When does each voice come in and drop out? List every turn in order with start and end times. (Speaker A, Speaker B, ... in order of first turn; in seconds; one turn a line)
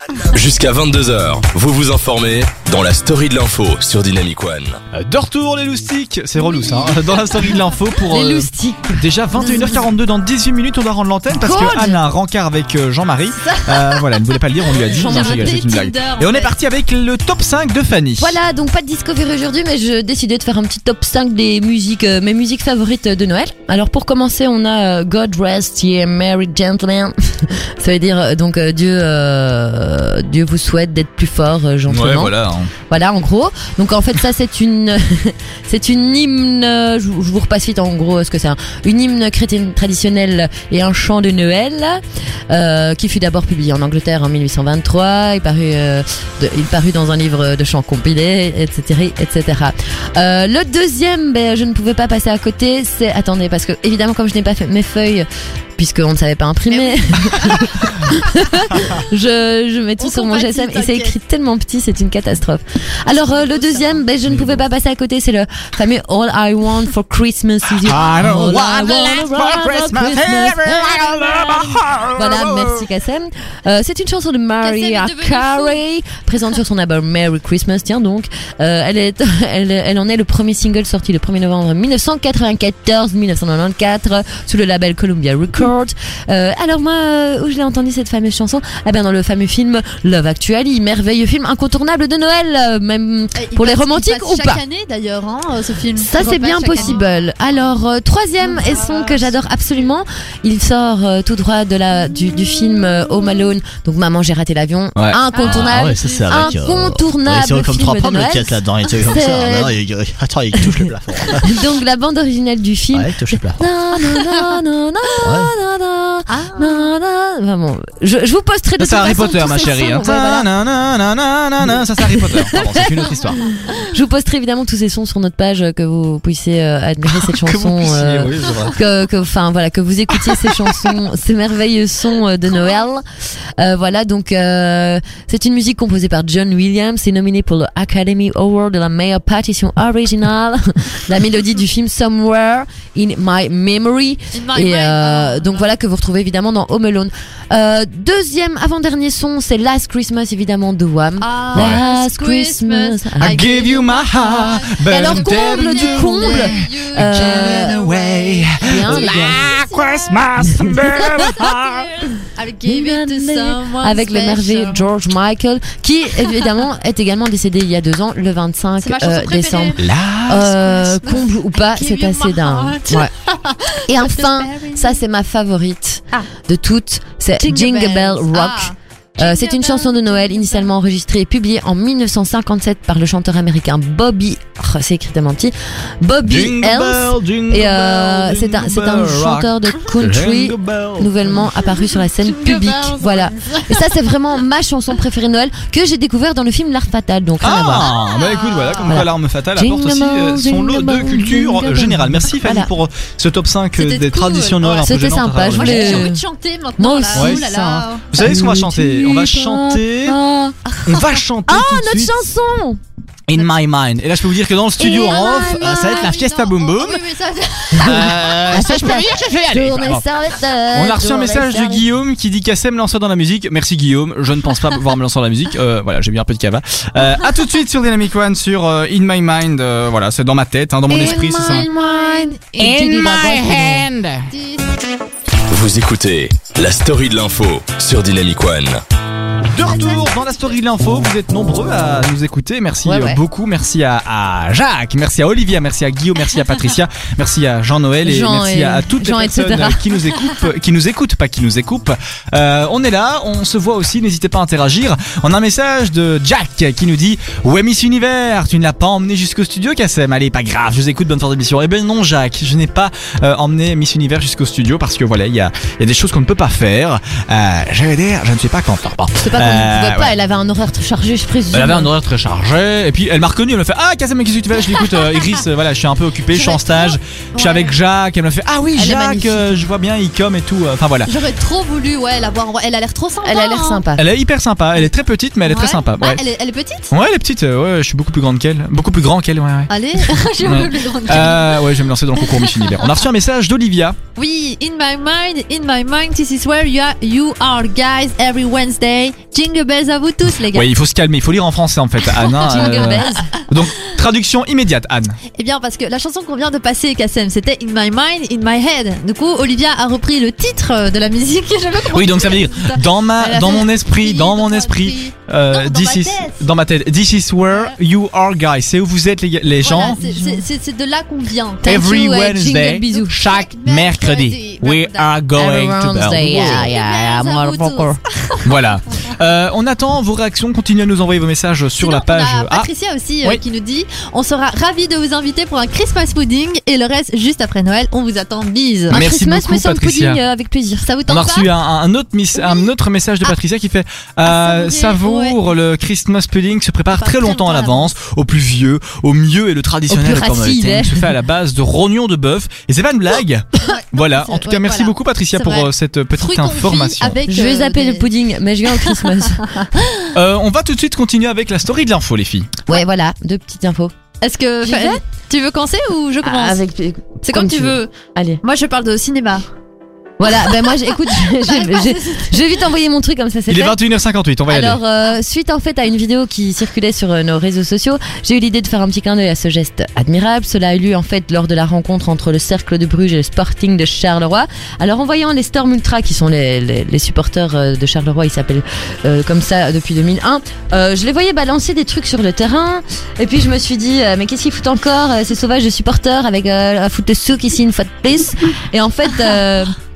Speaker A: 0.3-4.8
Speaker B: 4.9-18.4
Speaker C: 6.6-7.0
Speaker D: 8.1-9.8
Speaker D: 11.3-12.0
Speaker C: 13.4-14.1
Speaker C: 14.9-16.5
Speaker D: 14.9-15.6
Speaker D: 18.2-32.3
Speaker B: 31.9-32.7
Speaker D: 32.9-94.6
Speaker C: 56.7-58.1
Speaker C: 60.0-61.1
Speaker C: 63.1-64.0
Speaker B: 64.3-64.6
Speaker B: 67.8-72.7
Speaker C: 74.6-75.8
Speaker C: 93.3-97.1
Speaker D: 95.9-109.7
Speaker C: 98.4-99.3
Speaker B: 105.0-105.2
Speaker C: 105.3-106.3
Speaker E: 105.4-111.5
Speaker D: 110.6-110.9
Speaker D: 111.4-120.5
Speaker E: 112.9-113.6
Speaker C: 114.1-114.5
Speaker E: 115.2-115.5
Speaker C: 116.3-116.9
Speaker B: 118.8-123.4
Speaker D: 122.0-133.0
Speaker B: 127.2-128.8
Speaker D: 133.6-153.4
Speaker C: 144.3-145.7
Speaker C: 151.2-160.2
Speaker B: 151.5-151.8
Speaker B: 153.2-161.7
Speaker D: 154.8-157.8
Speaker D: 158.6-159.5
Speaker D: 160.4-161.4
Speaker C: 161.4-164.8
Speaker D: 162.6-173.1
Speaker C: 168.8-175.0
Speaker B: 169.8-170.4
Speaker D: 173.9-197.9
Speaker C: 177.4-180.7
Speaker B: 186.2-191.4
Speaker C: 191.6-193.9
Speaker B: 197.4-206.1
Speaker C: 197.8-199.0
Speaker D: 198.9-202.7
Speaker C: 203.8-205.0
Speaker D: 204.8-206.2
Speaker C: 205.5-208.1
Speaker D: 206.8-207.4
Speaker B: 207.1-210.2
Speaker D: 208.2-210.6
Speaker C: 210.7-211.0
Speaker B: 210.8-212.2
Speaker D: 211.5-212.8
Speaker B: 213.3-217.0
Speaker D: 214.8-215.4
Speaker C: 214.8-218.4
Speaker B: 217.8-220.0
Speaker D: 217.8-221.8
Speaker B: 220.7-231.7
Speaker C: 230.9-232.4
Speaker D: 230.9-233.9
Speaker B: 232.6-234.3
Speaker C: 234.3-234.8
Speaker A: 235.5-238.8
Speaker B: 239.5-270.1
Speaker C: 239.6-240.5
Speaker D: 242.8-243.2
Speaker D: 248.0-249.8
Speaker D: 269.2-271.9
Speaker B: 271.5-281.1
Speaker C: 276.3-277.8
Speaker D: 278.8-279.6
Speaker C: 281.1-283.8
Speaker D: 283.2-284.0
Speaker B: 284.0-286.2
Speaker C: 285.4-286.9
Speaker B: 286.9-294.0
Speaker C: 289.7-291.6
Speaker C: 292.2-292.9
Speaker C: 294.1-300.7
Speaker B: 300.5-305.2
Speaker D: 302.4-303.3
Speaker C: 305.3-316.5
Speaker B: 311.9-320.0
Speaker C: 317.5-317.7
Speaker C: 319.6-321.8
Speaker D: 319.7-320.4
Speaker D: 321.6-323.2
Speaker B: 321.6-327.1
Speaker C: 323.1-325.1
Speaker D: 325.4-328.0
Speaker C: 326.4-328.5
Speaker B: 328.4-332.7
Speaker C: 331.8-339.0
Speaker D: 338.9-340.8
Speaker B: 338.9-340.2
Speaker C: 340.8-341.5
Speaker B: 341.1-357.2
Speaker C: 342.3-342.7
Speaker C: 344.2-345.4
Speaker C: 347.0-347.9
Speaker D: 349.9-351.1
Speaker C: 353.6-358.1
Speaker D: 357.3-359.6
Speaker C: 358.7-360.1
Speaker B: 360.1-362.5
Speaker D: 362.7-363.9
Speaker C: 364.2-366.6
Speaker D: 364.6-365.0
Speaker D: 366.2-368.4
Speaker C: 367.2-367.9
Speaker C: 368.4-369.4
Speaker D: 370.2-373.8
Speaker C: 371.2-372.4
Speaker B: 373.5-374.8
Speaker D: 374.5-399.7